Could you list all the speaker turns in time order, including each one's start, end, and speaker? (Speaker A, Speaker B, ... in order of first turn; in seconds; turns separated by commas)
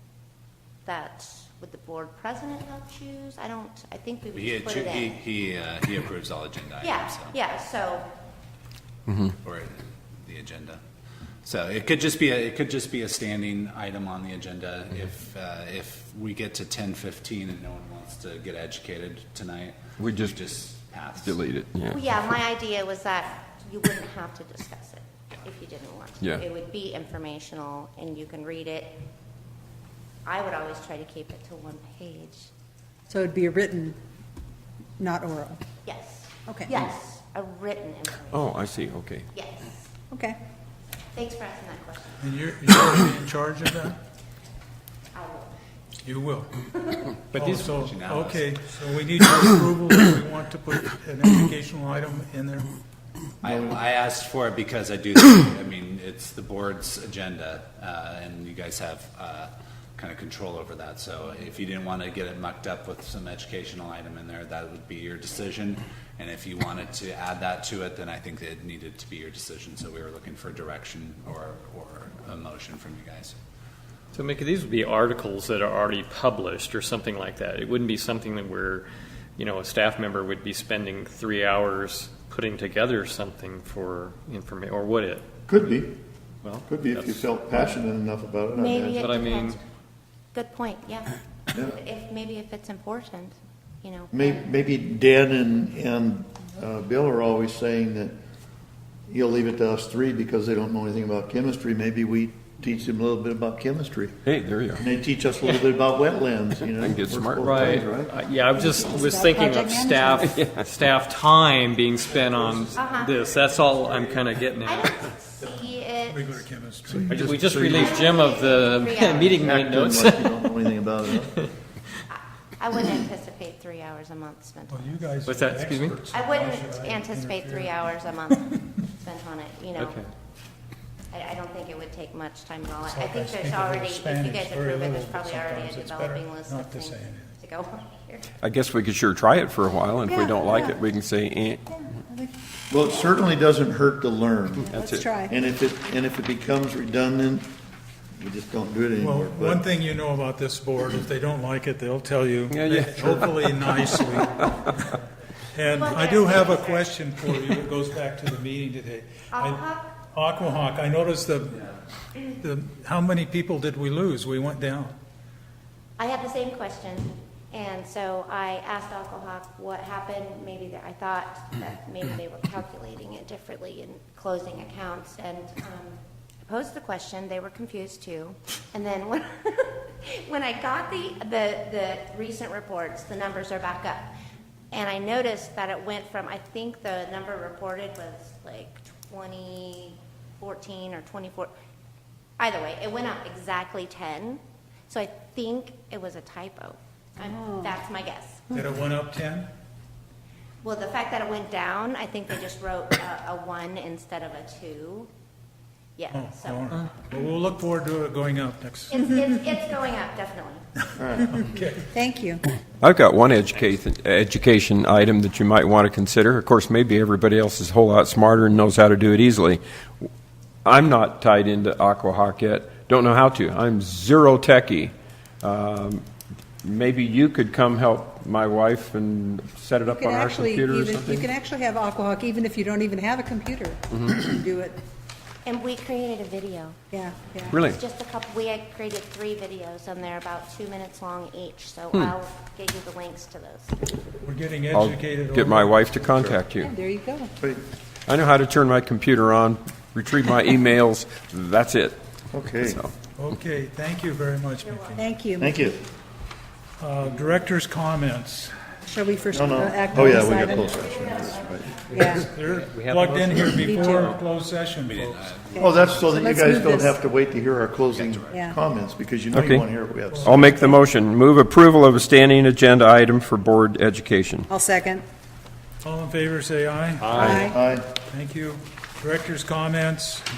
Speaker A: 0.8-5.2, Speaker B: 4.3-7.3, Speaker A: 6.8-8.1, Speaker B: 9.3-10.8, Speaker B: 11.4-21.4, Speaker C: 20.0-20.3, Speaker C: 21.2-22.0, Speaker A: 21.9-29.0, Speaker A: 30.2-32.5, Speaker D: 33.1-34.0, Speaker D: 35.0-35.6, Speaker A: 35.9-38.6, Speaker C: 38.3-39.3, Speaker A: 39.3-39.9, Speaker D: 40.1-40.4, Speaker A: 41.1-42.2, Speaker E: 42.2-44.0, Speaker A: 45.1-45.5, Speaker E: 46.0-46.5, Speaker B: 47.3-48.5, Speaker E: 47.3-52.7, Speaker B: 53.4-73.4, Speaker F: 53.5-53.8, Speaker G: 74.1-85.3, Speaker F: 85.5-86.0, Speaker G: 86.4-87.3, Speaker F: 86.6-89.1, Speaker A: 88.5-89.6, Speaker G: 89.0-89.6, Speaker A: 90.3-94.4, Speaker F: 94.1-98.2, Speaker F: 99.1-104.2, Speaker C: 104.2-104.8, Speaker F: 104.8-108.1, Speaker C: 106.8-107.8, Speaker G: 107.4-115.0, Speaker D: 108.5-110.3, Speaker C: 110.2-110.7, Speaker A: 112.8-113.2, Speaker A: 114.6-116.4, Speaker E: 116.1-117.0, Speaker F: 116.9-118.0, Speaker G: 117.1-120.5, Speaker A: 117.7-119.5, Speaker F: 119.4-121.3, Speaker A: 122.1-125.0, Speaker E: 124.7-128.6, Speaker G: 125.3-126.0, Speaker A: 126.1-130.0, Speaker G: 129.8-130.1, Speaker A: 131.1-138.3, Speaker E: 132.9-137.3, Speaker C: 138.4-141.6, Speaker D: 140.1-140.8, Speaker D: 141.7-142.3, Speaker F: 142.7-147.5, Speaker C: 144.7-145.1, Speaker D: 144.7-145.3, Speaker F: 148.2-149.6, Speaker E: 149.0-155.0, Speaker C: 152.5-154.5, Speaker E: 155.5-161.7, Speaker A: 155.7-156.8, Speaker A: 159.3-160.0, Speaker E: 162.3-165.0, Speaker A: 166.0-184.1, Speaker A: 184.7-191.5, Speaker A: 192.4-198.6, Speaker E: 198.6-199.5, Speaker A: 200.6-205.1, Speaker A: 206.0-206.7, Speaker E: 206.1-209.0, Speaker A: 208.9-210.6, Speaker F: 211.0-211.3, Speaker E: 211.3-211.8, Speaker D: 211.9-212.4, Speaker C: 212.8-219.6, Speaker C: 220.6-226.0, Speaker C: 226.6-231.3, Speaker D: 229.8-234.8, Speaker A: 235.5-236.8, Speaker D: 236.9-237.6, Speaker C: 237.5-237.8, Speaker A: 237.5-243.8, Speaker E: 244.2-246.0, Speaker C: 244.7-246.7, Speaker D: 246.6-247.3, Speaker F: 247.4-247.7, Speaker C: 248.1-252.0, Speaker F: 252.3-252.8, Speaker C: 252.6-252.9, Speaker E: 253.1-255.0, Speaker A: 254.6-255.1, Speaker D: 255.0-255.6, Speaker F: 255.4-255.8, Speaker E: 256.8-258.5, Speaker D: 258.9-260.8, Speaker F: 259.3-261.7, Speaker D: 261.9-262.3, Speaker G: 261.9-264.1, Speaker E: 262.3-265.2, Speaker D: 263.6-264.2, Speaker B: 264.9-266.1, Speaker F: 265.6-270.5, Speaker D: 265.6-267.0, Speaker B: 267.9-268.5, Speaker D: 268.3-268.6, Speaker C: 269.4-269.7, Speaker E: 270.1-270.6, Speaker C: 270.2-274.5, Speaker D: 274.5-275.0, Speaker E: 275.8-277.4, Speaker G: 277.0-277.4, Speaker C: 277.1-277.5, Speaker D: 277.1-277.6, Speaker F: 277.4-277.9, Speaker E: 278.1-280.3